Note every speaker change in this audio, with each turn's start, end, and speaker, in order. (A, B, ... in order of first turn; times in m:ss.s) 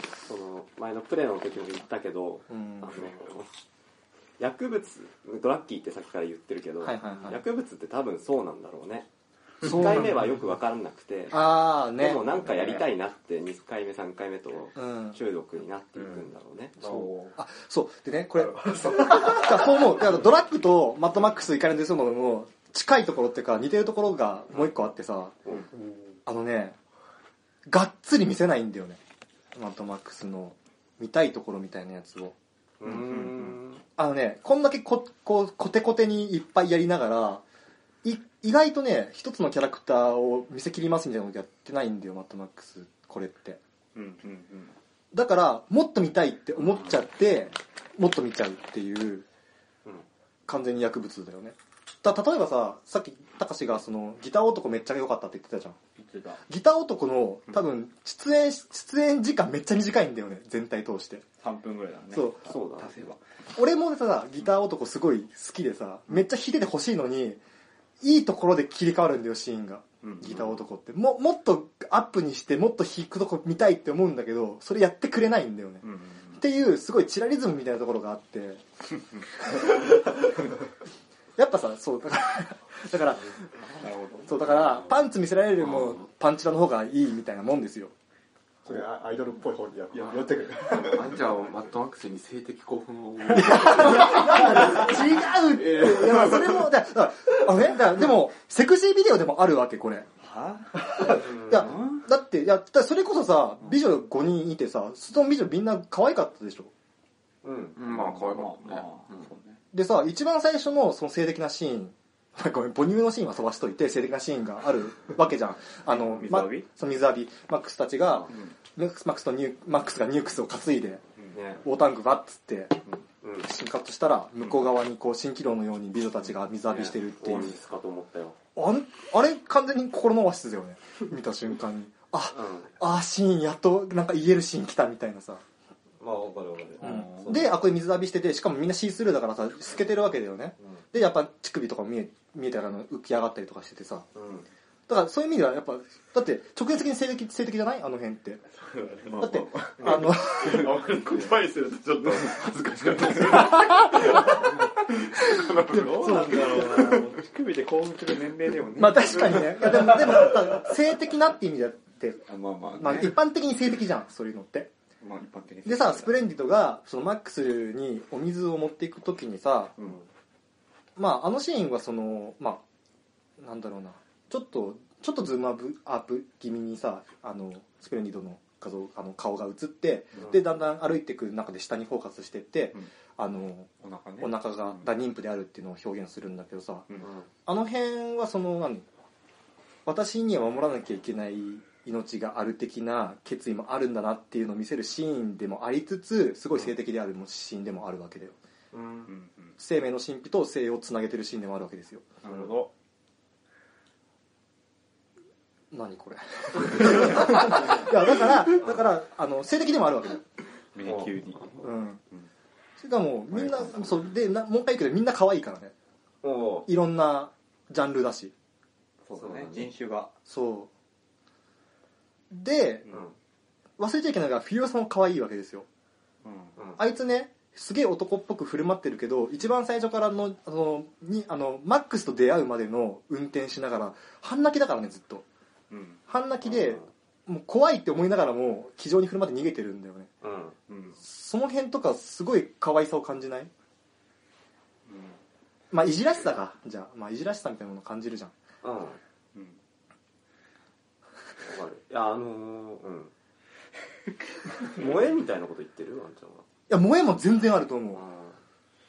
0:00.3-0:03.5 A
0:02.5-0:02.9 B
0:04.4-0:09.1 A
0:06.8-0:07.4 B
0:09.6-0:17.1 A
0:09.6-0:10.2 B
0:11.3-0:12.3 B
0:14.8-0:15.2 B
0:17.4-0:25.4 B
0:18.4-0:19.8 C
0:25.7-0:26.2 C
0:26.3-0:26.8 B
0:27.7-0:29.0 B
0:29.6-0:32.4 B
0:32.8-0:33.8 A
0:32.8-0:33.6 D
0:34.0-0:37.4 B
0:38.0-0:43.6 B
0:44.0-0:44.7 D
0:45.1-0:49.2 B
0:50.5-0:55.8 B
0:56.0-0:56.4 D
0:56.5-1:01.3 B
1:01.4-1:03.2 D
1:02.1-1:02.5 B
1:02.4-1:02.9 A
1:03.6-1:07.4 B
1:08.0-1:18.6 B
1:10.0-1:10.5 D
1:15.8-1:16.4 D
1:19.4-1:20.0 B
1:21.4-1:23.2 B
1:23.6-1:24.8 D
1:24.3-1:27.9 B
1:28.6-1:31.2 C
1:29.9-1:36.7 E
1:33.3-1:40.1 B
1:40.2-1:41.2 D
1:41.1-1:41.8 A
1:41.5-1:46.7 B
1:47.4-1:48.5 A
1:47.8-1:48.9 E
1:47.9-1:49.6 D
1:49.7-2:01.0 B
1:55.9-1:56.7 D
2:01.3-2:01.6 A
2:01.6-2:02.8 B
2:02.9-2:03.5 A
2:03.4-2:07.6 B
2:06.7-2:08.4 A
2:08.6-2:15.4 B
2:12.3-2:12.7 A
2:16.0-2:17.6 A
2:16.8-2:24.1 B
2:24.2-2:24.5 A
2:24.9-2:28.4 B
2:29.1-2:29.8 D
2:29.2-2:30.7 B
2:29.4-2:29.9 E
2:29.8-2:30.1 A
2:30.4-2:32.2 D
2:30.5-2:33.7 E
2:33.0-2:34.1 D
2:35.2-2:37.1 E
2:35.3-2:40.4 D
2:35.8-2:36.9 B
2:38.8-2:42.2 B
2:42.3-2:43.2 D
2:42.8-2:44.7 B
2:45.0-2:46.1 D
2:45.6-2:49.7 B
2:51.0-2:52.6 B
2:53.4-3:03.7 B
3:03.8-3:04.8 D
3:04.2-3:06.9 B
3:07.0-3:07.3 A
3:07.5-3:08.9 B
3:09.9-3:18.4 B
3:18.7-3:19.1 A
3:19.1-3:19.5 D
3:19.6-3:22.1 B
3:22.2-3:22.7 D
3:25.7-3:30.2 B
3:30.8-3:31.6 D
3:30.8-3:31.1 A
3:31.6-3:32.0 B
3:32.8-3:35.7 B
3:36.2-3:36.7 A
3:36.7-3:38.3 B
3:39.1-3:40.1 D
3:39.2-3:39.7 A
3:40.3-3:40.7 B
3:42.3-3:42.8 B
3:42.9-3:43.1 A
3:43.8-3:45.7 B
3:46.2-3:46.5 D
3:46.6-3:46.8 A
3:46.8-3:55.2 B
3:55.7-3:56.0 D
3:56.1-4:00.1 B
3:56.4-3:56.9 A
4:00.2-4:00.6 A
4:00.7-4:01.0 D
4:01.0-4:03.5 B
4:04.9-4:05.2 D
4:05.7-4:08.3 B
4:08.6-4:09.0 A
4:11.4-4:13.1 A
4:14.6-4:16.5 A
4:16.7-4:18.0 B
4:17.9-4:18.4 A